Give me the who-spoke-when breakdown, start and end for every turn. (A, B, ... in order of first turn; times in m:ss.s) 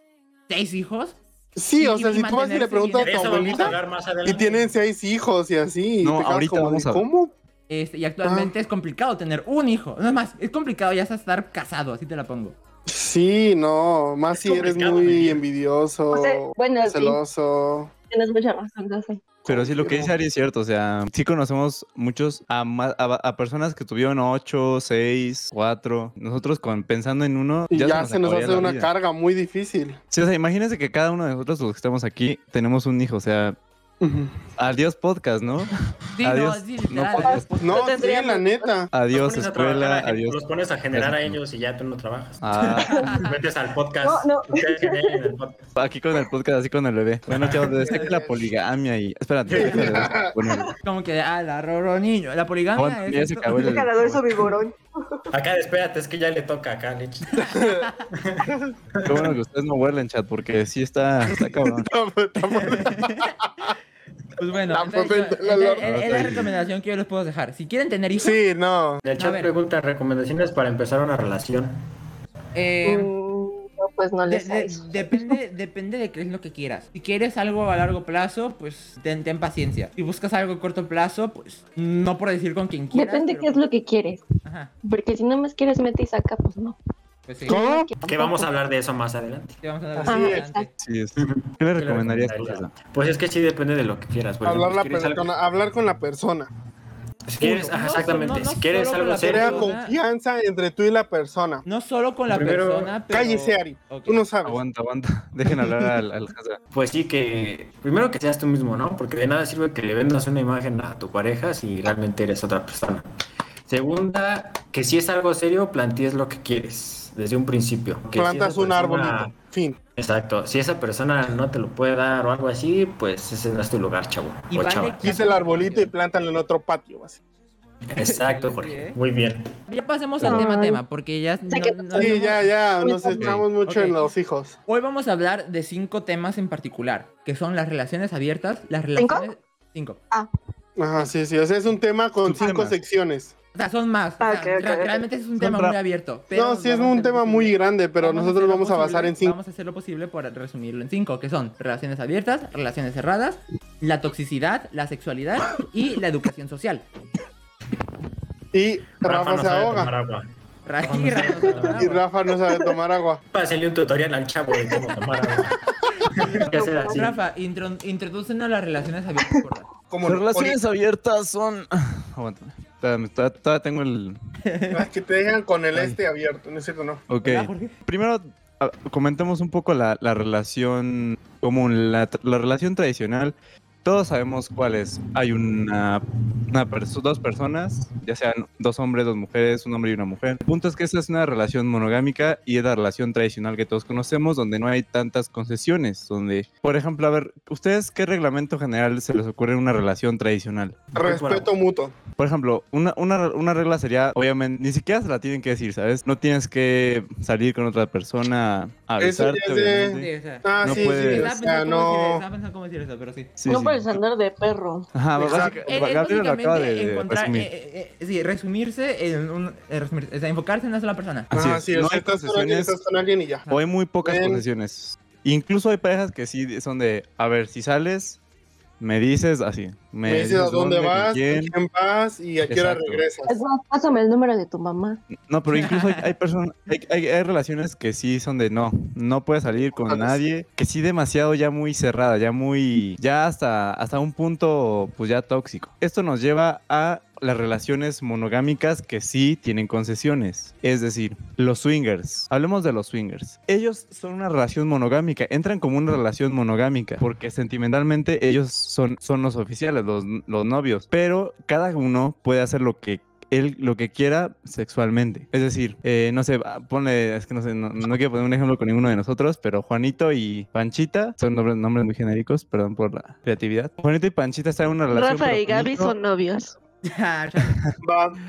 0:00.5-0:01.2 A
0:01.6-0:07.3 B
0:01.8-0:03.8 A
0:03.0-0:04.6 C
0:06.0-0:07.1 D
0:07.7-0:12.6 A
0:08.2-0:08.5 B
0:12.9-0:17.9 B
0:14.3-0:15.4 C
0:16.1-0:17.2 E
0:18.1-0:19.4 E
0:19.4-0:20.1 B
0:19.5-0:28.9 D
0:27.7-0:30.0 B
0:30.1-0:33.6 D
0:34.0-0:34.3 B
0:34.6-0:37.6 D
0:36.1-0:37.9 A
0:37.2-0:38.8 E
0:37.6-0:38.9 B
0:38.9-0:41.4 D
0:39.1-0:42.5 C
0:42.4-0:43.2 D
0:42.6-0:43.3 A
0:42.9-0:43.2 E
0:43.1-0:45.7 C
0:44.0-0:45.3 E
0:45.8-0:50.7 D
0:47.3-0:47.8 C
0:47.8-0:48.1 A
0:47.8-0:48.5 B
0:49.5-0:50.2 C
0:49.6-0:50.4 B
0:50.8-0:53.8 A
0:52.8-0:54.6 D
0:53.5-0:55.3 E
0:55.3-0:57.5 C
0:57.3-0:58.1 A
0:57.5-0:57.9 B
0:58.1-0:59.3 C
0:58.5-0:58.8 B
0:59.0-1:01.9 D
1:01.6-1:03.7 B
1:02.5-1:03.3 A
1:04.4-1:08.4 A
1:04.7-1:05.9 B
1:05.8-1:06.4 D
1:08.2-1:09.0 B
1:09.0-1:11.9 C
1:09.2-1:09.5 A
1:12.5-1:13.1 A
1:12.8-1:15.4 E
1:14.2-1:23.6 A
1:22.9-1:24.2 E
1:24.4-1:24.7 A
1:24.8-1:26.8 E
1:27.3-1:27.6 A
1:27.5-1:28.5 E
1:27.5-1:27.9 B
1:28.1-1:29.6 C
1:29.6-1:30.7 A
1:30.0-1:30.4 B
1:30.0-1:30.7 E
1:30.8-1:32.7 D
1:31.2-1:35.3 C
1:34.4-1:36.5 B
1:37.3-1:39.7 C
1:37.4-1:40.0 A
1:39.2-1:41.6 B
1:41.6-1:44.2 A
1:42.3-1:42.9 C
1:43.1-1:44.6 B
1:44.4-1:46.6 D
1:46.7-1:53.1 C
1:53.6-1:59.4 C
1:58.2-1:59.8 B
2:00.0-2:05.3 C
2:04.5-2:05.9 A
2:05.0-2:07.2 B
2:07.8-2:09.5 C
2:08.0-2:09.0 A
2:09.7-2:12.5 A
2:10.2-2:10.8 E
2:11.5-2:12.1 E
2:12.0-2:14.6 B
2:12.8-2:13.3 E
2:13.2-2:13.4 D
2:13.6-2:14.0 A
2:14.7-2:20.0 A
2:19.0-2:19.3 E
2:20.8-2:23.3 B
2:22.2-2:22.8 D
2:23.5-2:36.8 A
2:24.2-2:25.0 E
2:25.4-2:25.8 D
2:26.3-2:29.4 B
2:38.5-2:39.9 B
2:39.0-2:40.3 C
2:40.6-2:42.0 A
2:40.8-2:41.9 C
2:41.8-2:43.2 B
2:43.3-2:45.6 C
2:46.0-2:49.7 A
2:46.1-2:47.2 C
2:46.4-2:47.1 E
2:49.9-2:50.6 B
2:50.0-2:54.2 D
2:54.4-2:54.8 A
2:54.7-2:57.0 B
2:55.7-2:56.0 D
2:57.1-3:20.9 D
2:57.2-2:57.8 A
3:20.9-3:21.5 C
3:21.0-3:21.9 B
3:22.2-3:30.1 D
3:29.0-3:32.2 B
3:30.0-3:33.3 A
3:30.6-3:31.3 D
3:33.4-3:34.0 D
3:33.5-3:34.9 E
3:34.9-3:37.5 D
3:35.2-3:35.7 B
3:35.2-3:41.3 A
3:41.3-3:42.8 D
3:41.3-3:43.5 B
3:43.5-3:48.2 D
3:44.0-3:44.4 B
3:48.8-3:51.6 D
3:50.1-3:53.4 B
3:52.5-3:53.0 D
3:53.3-3:55.0 E
3:55.1-4:36.0 D
3:55.5-3:56.1 A
3:59.8-4:00.2 B
4:34.9-4:36.6 E
4:36.8-4:37.6 A
4:37.4-4:37.8 D
4:37.8-4:38.2 B